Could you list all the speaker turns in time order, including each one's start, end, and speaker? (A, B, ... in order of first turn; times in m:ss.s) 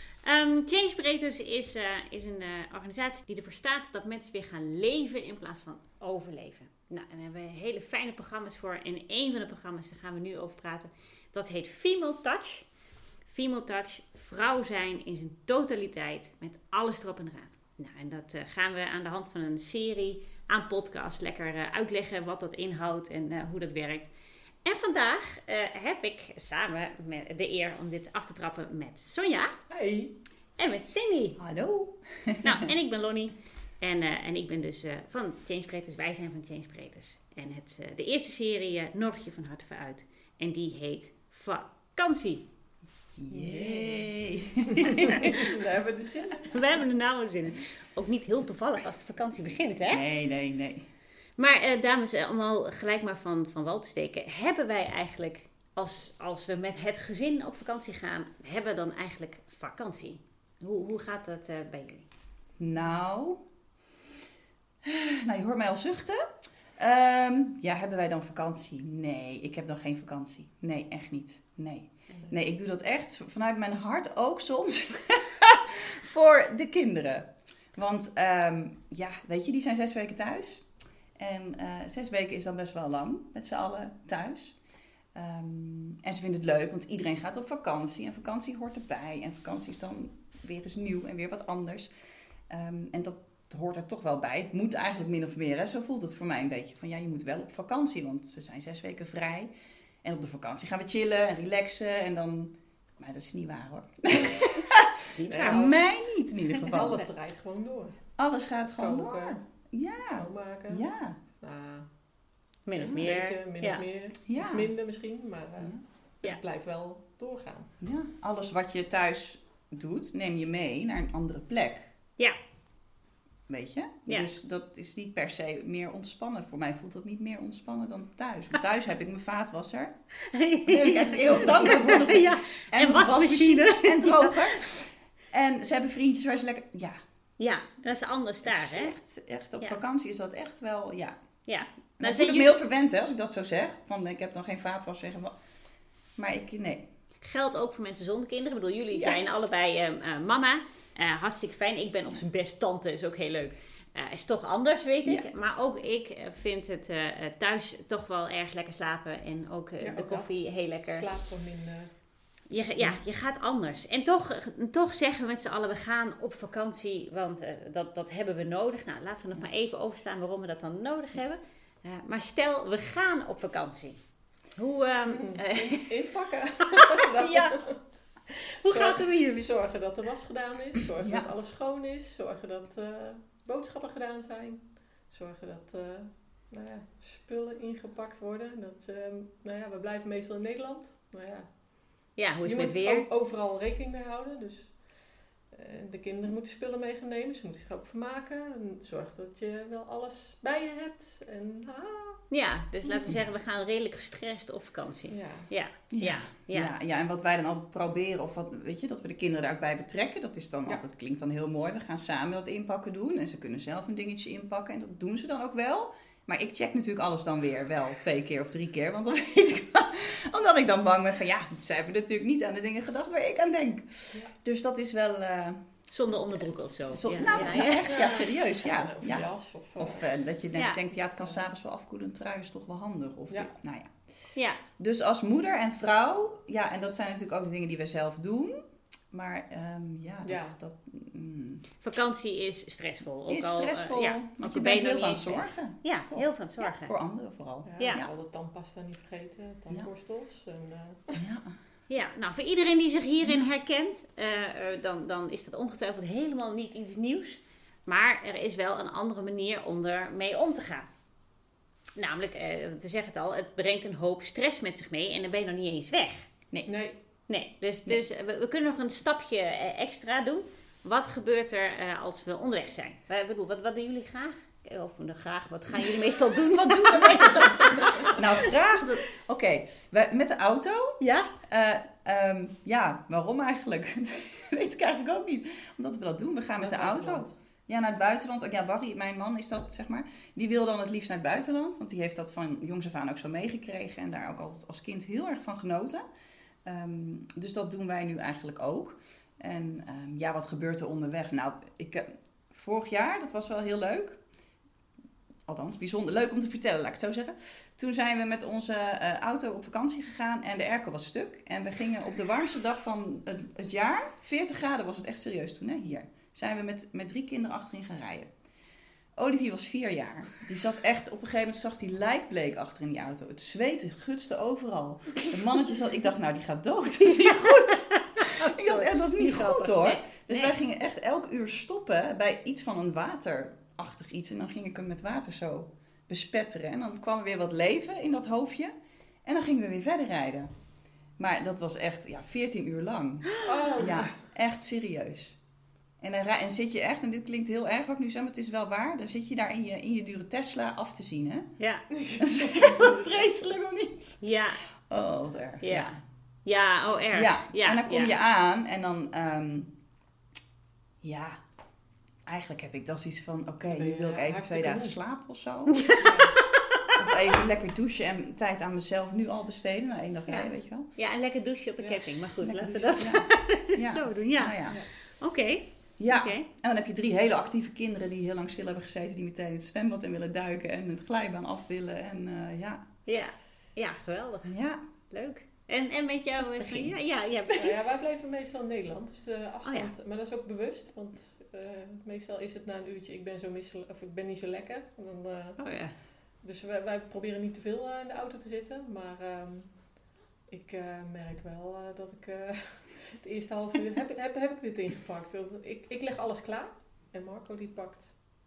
0:00.2-0:12.7 A
0:13.3-0:24.1 A
0:24.6-0:29.5 A
0:29.7-0:30.1 B
0:30.6-0:31.4 A
0:31.4-0:32.7 C
0:32.4-0:42.5 A
0:43.2-0:45.5 C
0:43.3-0:44.1 B
0:44.7-0:46.6 B
0:45.0-0:45.6 A
0:46.5-0:50.0 A
0:49.8-0:50.8 C
0:51.4-1:02.1 A
1:02.6-1:03.4 C
1:04.8-1:06.3 C
1:06.8-1:20.7 C
1:21.2-1:24.6 C
1:25.2-1:31.9 C
1:32.5-1:39.5 C
1:40.0-1:47.0 C
1:45.0-1:45.7 A
1:45.3-1:45.8 B
1:46.6-1:48.0 B
1:48.2-1:51.2 C
1:48.7-1:49.4 B
1:50.2-1:50.9 B
1:51.4-1:51.9 B
1:52.7-1:53.8 A
1:52.8-1:57.7 B
1:54.3-1:54.7 C
1:57.8-2:01.9 C
2:03.5-2:09.9 C
2:10.3-2:14.7 A
2:10.7-2:17.0 C
2:17.4-2:19.0 A
2:18.4-2:21.2 C
2:21.4-2:22.6 A
2:22.0-2:25.4 C
2:26.2-2:26.9 C
2:27.2-2:41.1 A
2:39.8-2:41.9 B
2:42.5-2:54.0 A
2:54.6-2:55.9 A
2:55.1-2:57.8 B
2:57.1-2:57.6 A
2:58.3-2:59.5 A
2:58.6-3:11.5 B
3:01.0-3:01.3 C
3:12.2-3:13.1 A
3:12.4-3:14.8 B
3:15.5-3:22.2 B
3:22.3-3:26.7 A
3:25.1-3:25.5 B
3:25.9-3:45.6 C
3:45.9-3:48.1 A
3:46.9-3:53.9 C
3:47.2-3:50.1 B
3:50.5-3:50.8 A
3:54.4-3:54.6 A
3:54.8-3:58.6 C
3:59.1-4:01.7 C
4:00.2-4:00.6 B
4:01.8-4:06.9 A
4:03.3-4:08.1 C
4:07.6-4:11.2 B
4:07.8-4:08.1 A
4:11.2-4:11.5 C
4:11.9-4:20.9 A
4:22.0-4:26.3 A
4:26.7-4:27.0 B
4:27.3-4:38.2 A
4:36.4-4:56.0 C
4:41.0-4:41.3 A
4:46.6-4:47.4 B
4:56.6-5:04.2 C
5:05.5-5:18.3 C
5:19.2-5:38.7 C
5:27.1-5:30.6 A
5:39.2-5:40.5 C
5:41.2-5:45.4 C
5:43.4-5:44.2 B
5:46.0-5:51.5 C
5:51.6-5:51.9 A
5:52.0-5:52.9 B
5:52.2-5:54.2 C
5:54.2-5:54.6 A
5:54.9-5:56.0 C
5:55.6-5:58.1 A
5:57.1-5:59.7 C
6:01.0-6:01.4 C
6:02.3-6:06.2 C
6:03.7-6:05.0 B
6:05.7-6:06.4 A
6:06.0-6:06.3 B
6:07.0-6:10.9 C
6:10.3-6:16.5 A
6:12.4-6:14.8 C
6:16.0-6:22.8 C
6:23.1-6:24.6 A
6:24.4-6:24.8 C
6:25.1-6:27.9 A
6:26.4-6:26.9 C
6:27.6-6:35.6 B
6:29.6-6:29.9 A
6:35.6-6:36.0 A
6:36.4-6:39.7 B
6:40.5-6:48.2 B